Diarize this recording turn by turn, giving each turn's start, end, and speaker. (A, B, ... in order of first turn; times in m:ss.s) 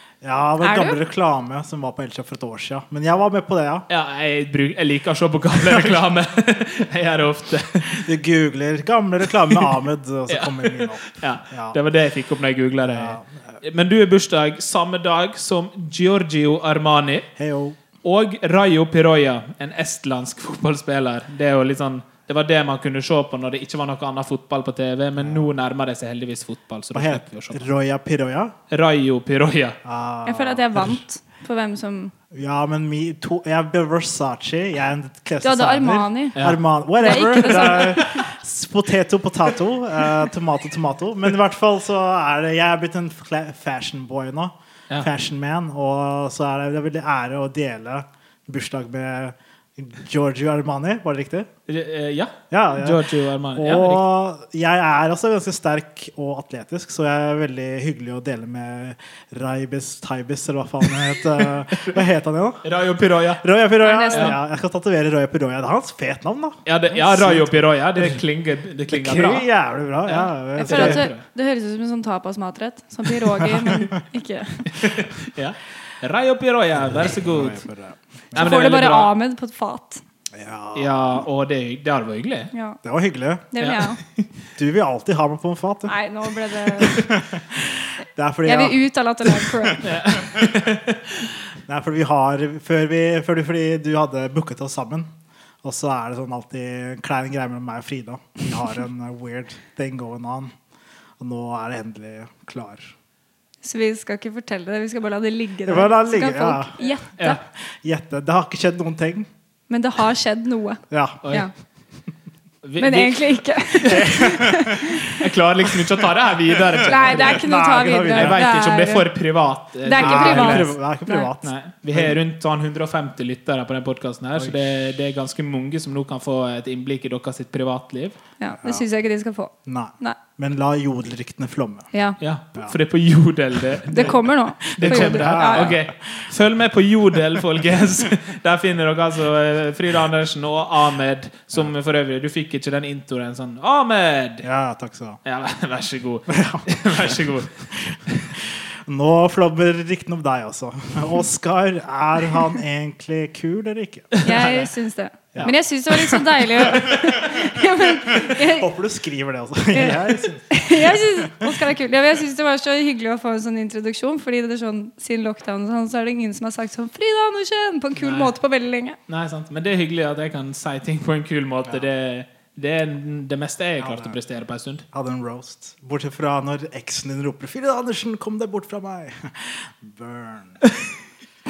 0:00.2-0:03.9 A
0:00.6-0:01.0 B
0:03.9-0:08.1 C
0:05.6-0:05.9 A
0:07.9-0:11.8 A
0:10.3-0:17.3 C
0:12.8-0:13.6 A
0:17.4-0:17.8 A
0:18.0-0:27.7 C
0:25.2-0:25.5 A
0:26.9-0:28.5 A
0:28.7-0:29.8 C
0:29.8-0:31.0 A
0:30.2-0:32.1 B
0:32.3-0:51.5 A
0:35.4-0:36.4 B
0:36.4-0:38.3 C
0:37.0-0:38.2 B
0:51.7-0:54.0 C
0:52.5-1:02.6 A
1:01.3-1:02.0 C
1:02.6-1:03.4 C
1:03.4-1:08.2 A
1:03.8-1:04.4 B
1:04.1-1:04.4 C
1:06.6-1:09.5 C
1:08.9-1:11.1 A
1:10.1-1:11.2 C
1:10.6-1:14.9 B
1:13.4-1:13.8 A
1:14.7-1:17.6 C
1:16.8-1:18.6 A
1:18.3-1:19.1 C
1:18.4-1:20.0 B
1:20.3-1:21.2 A
1:20.7-1:22.5 C
1:22.5-1:22.8 B
1:22.8-1:23.5 A
1:23.5-1:24.0 B
1:23.6-1:24.2 C
1:24.6-1:30.7 A
1:25.9-1:27.1 B
1:28.4-1:29.9 B
1:29.8-1:31.2 C
1:31.7-1:35.1 A
1:35.6-1:40.5 A
1:41.2-1:42.9 A
1:43.6-1:47.4 B
1:45.6-1:46.8 A
1:47.7-1:49.3 A
1:49.7-1:51.5 B
1:50.9-1:51.2 A
1:51.2-1:51.5 C
1:52.6-1:54.1 C
1:52.8-1:55.1 B
1:53.8-1:55.1 A
1:55.0-1:57.5 C
1:56.5-1:58.4 A
1:56.8-1:59.1 B
1:58.1-2:00.7 C
1:59.8-2:01.3 B
2:00.0-2:02.2 A
2:01.4-2:08.2 C
2:08.4-2:10.2 B
2:09.6-2:11.9 A
2:11.9-2:12.2 B
2:12.2-2:14.2 C
2:13.8-2:16.2 A
2:13.9-2:15.7 B
2:14.8-2:24.5 C
2:24.4-2:25.2 A
2:25.2-2:27.5 C
2:26.3-2:34.6 A
2:34.1-2:34.6 C
2:34.2-2:38.7 B
2:35.3-2:41.6 A
2:39.7-2:49.0 B
2:48.0-2:48.3 C
2:49.1-2:54.8 C
2:53.8-2:54.2 A
2:54.9-3:00.6 A